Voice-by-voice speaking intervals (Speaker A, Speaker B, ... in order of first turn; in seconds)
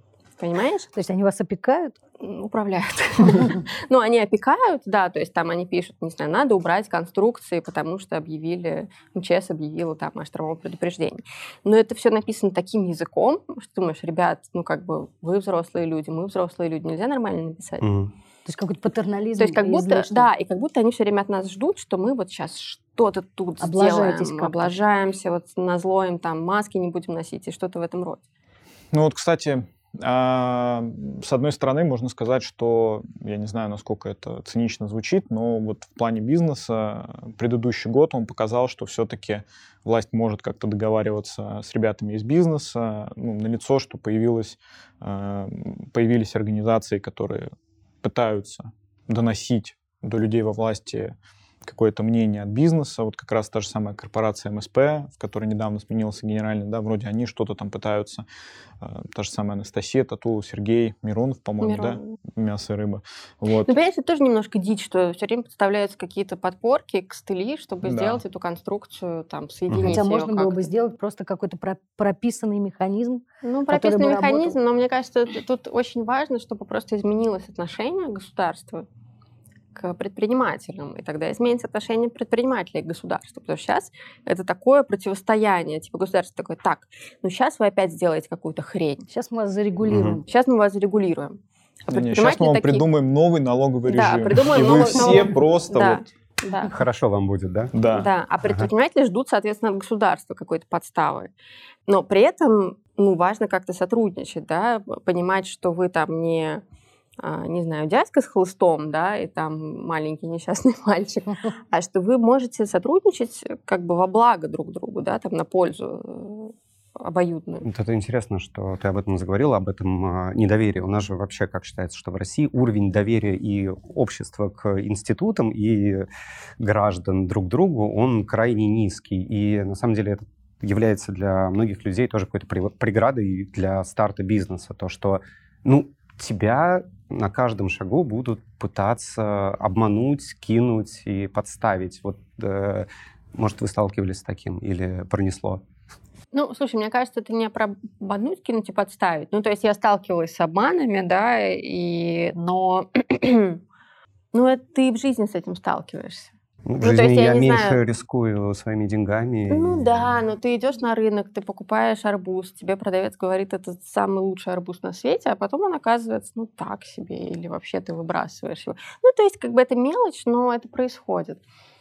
Speaker A: 0.4-0.9, 2.2-17.8, 19.4-28.2, 61.6-62.0, 63.7-70.7, 73.4-78.8, 79.7-89.1, 90.3-92.8, 93.9-96.8, 97.9-101.3, 101.9-106.6, 107.2-117.7, 146.3-153.6, 154.3-157.8, 159.5-171.4
Speaker B: 0.9-1.9, 18.4-20.3, 23.6-24.7, 69.9-74.6, 89.1-90.2
Speaker C: 17.8-18.1, 69.7-70.0, 89.9-90.2, 96.6-97.7, 98.4-98.7, 117.6-126.1, 126.6-145.6, 156.7-160.1
Speaker D: 28.9-47.5, 48.0-58.2, 58.8-63.7, 67.8-68.2, 91.9-96.0, 97.7-98.1